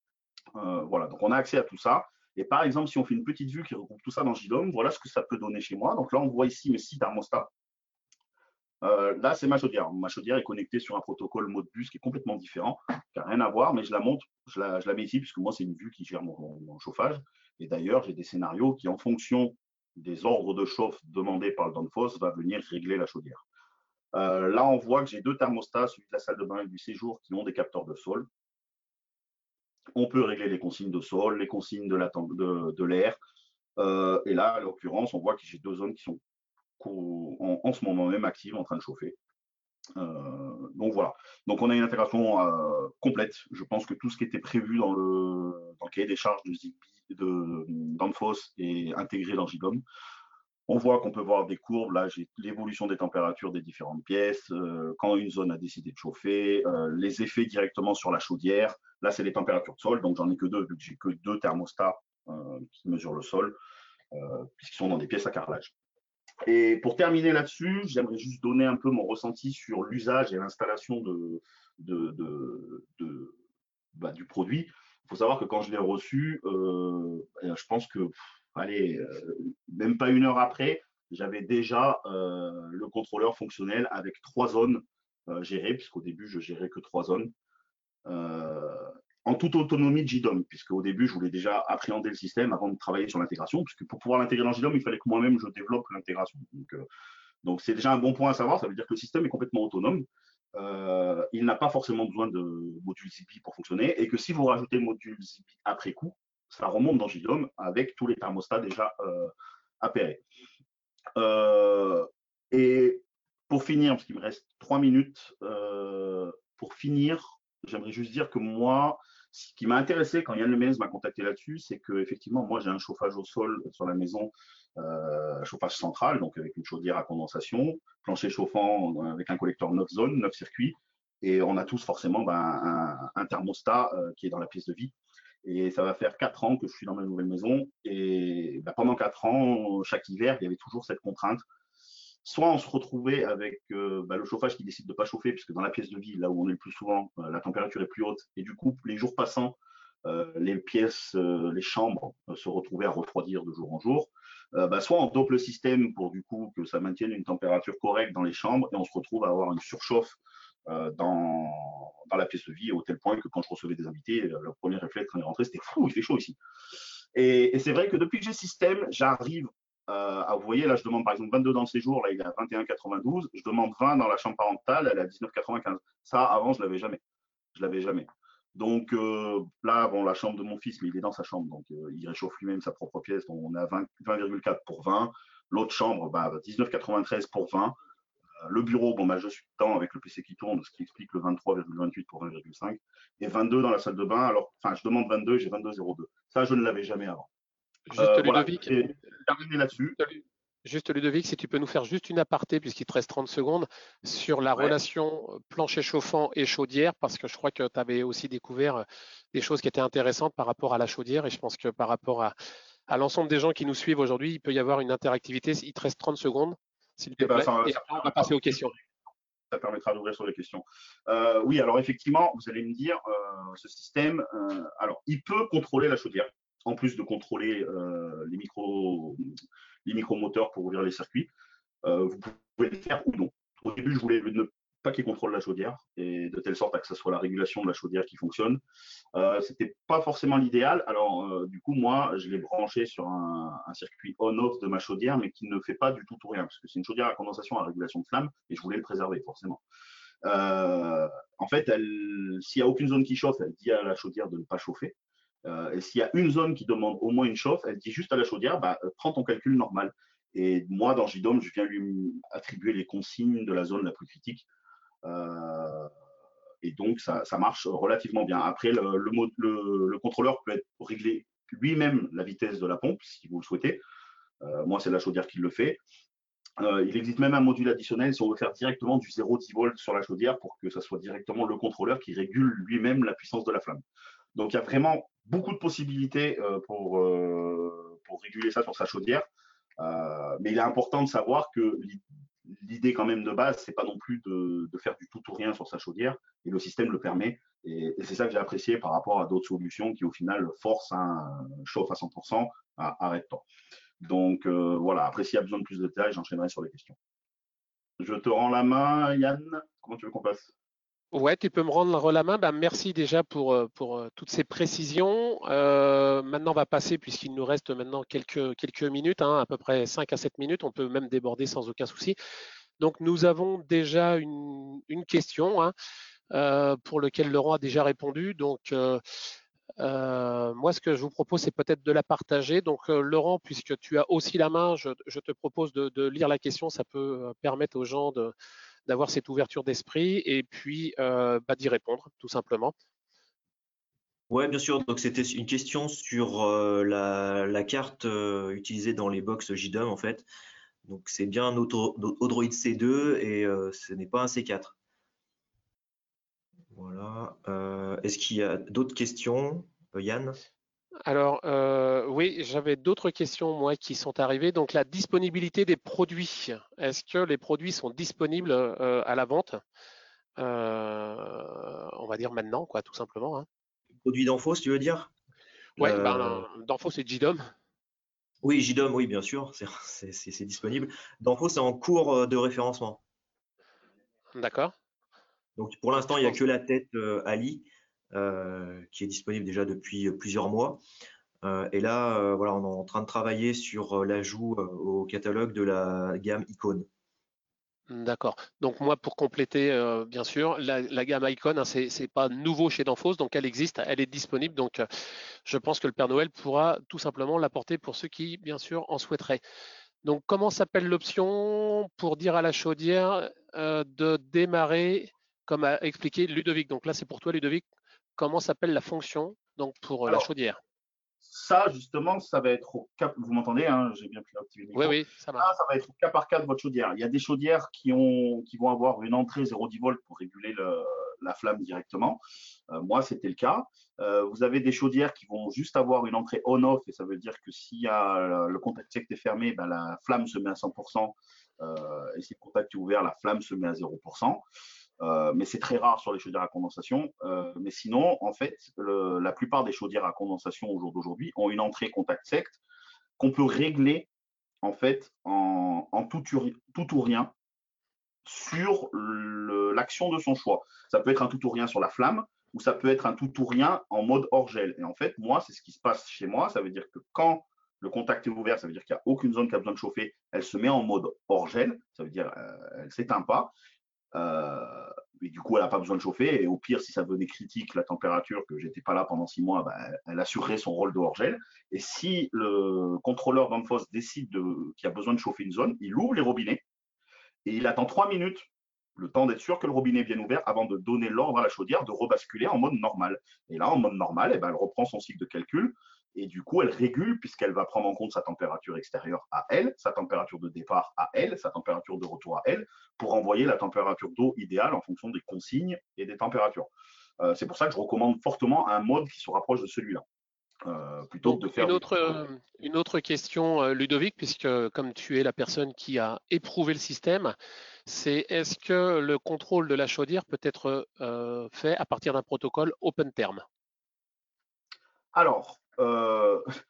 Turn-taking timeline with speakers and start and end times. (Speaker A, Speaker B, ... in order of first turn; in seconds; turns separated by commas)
Speaker A: 0.6-7.5, Speaker A: 8.8-23.4, Speaker A: 24.1-28.3, Speaker A: 29.9-33.2, Speaker A: 33.8-36.2, Speaker A: 36.8-39.2, Speaker A: 40.0-49.8, Speaker A: 50.7-63.6, Speaker A: 64.1-65.7, Speaker A: 66.4-73.3, Speaker A: 74.0-87.3, Speaker A: 88.1-96.8, Speaker A: 97.4-110.2, Speaker A: 111.2-134.9, Speaker A: 135.4-141.4, Speaker A: 142.2-166.4, Speaker A: 167.2-177.0, Speaker A: 177.5-187.8, Speaker A: 188.4-197.3, Speaker B: 197.9-198.7, Speaker A: 198.0-200.0, Speaker B: 200.0-212.3, Speaker B: 212.9-218.8, Speaker A: 217.2-218.5, Speaker A: 219.5-229.3, Speaker A: 229.8-231.3, Speaker A: 231.8-238.6, Speaker A: 239.1-249.6, Speaker A: 250.2-264.4, Speaker A: 265.0-265.9, Speaker A: 266.6-273.8, Speaker A: 274.4-275.8, Speaker A: 276.6-283.8, Speaker A: 284.4-289.3, Speaker A: 289.8-303.5, Speaker A: 304.0-307.0, Speaker A: 308.0-310.5, Speaker B: 311.1-322.2, Speaker B: 322.8-325.7, Speaker B: 326.3-329.0, Speaker B: 329.8-338.3, Speaker B: 338.9-342.7, Speaker C: 344.3-350.3, Speaker C: 350.9-354.8, Speaker C: 356.7-360.4, Speaker B: 361.1-369.6, Speaker B: 370.4-373.5, Speaker C: 374.0-375.1, Speaker C: 375.8-376.5, Speaker B: 375.8-377.5, Speaker C: 378.4-383.0, Speaker B: 384.4-384.7, Speaker C: 385.6-390.8, Speaker B: 386.1-386.4, Speaker C: 391.4-396.9, Speaker B: 397.9-404.9, Speaker B: 405.5-409.4, Speaker B: 410.0-417.6, Speaker B: 418.2-420.6, Speaker A: 421.2-444.4, Speaker B: 424.7-425.5, Speaker A: 445.0-452.6, Speaker A: 453.2-454.1, Speaker A: 454.6-457.3, Speaker A: 458.2-473.5, Speaker A: 474.1-486.6, Speaker A: 487.4-506.7, Speaker A: 507.2-510.0, Speaker A: 510.6-512.2, Speaker B: 511.2-517.4, Speaker B: 517.9-523.4, Speaker A: 525.1-526.5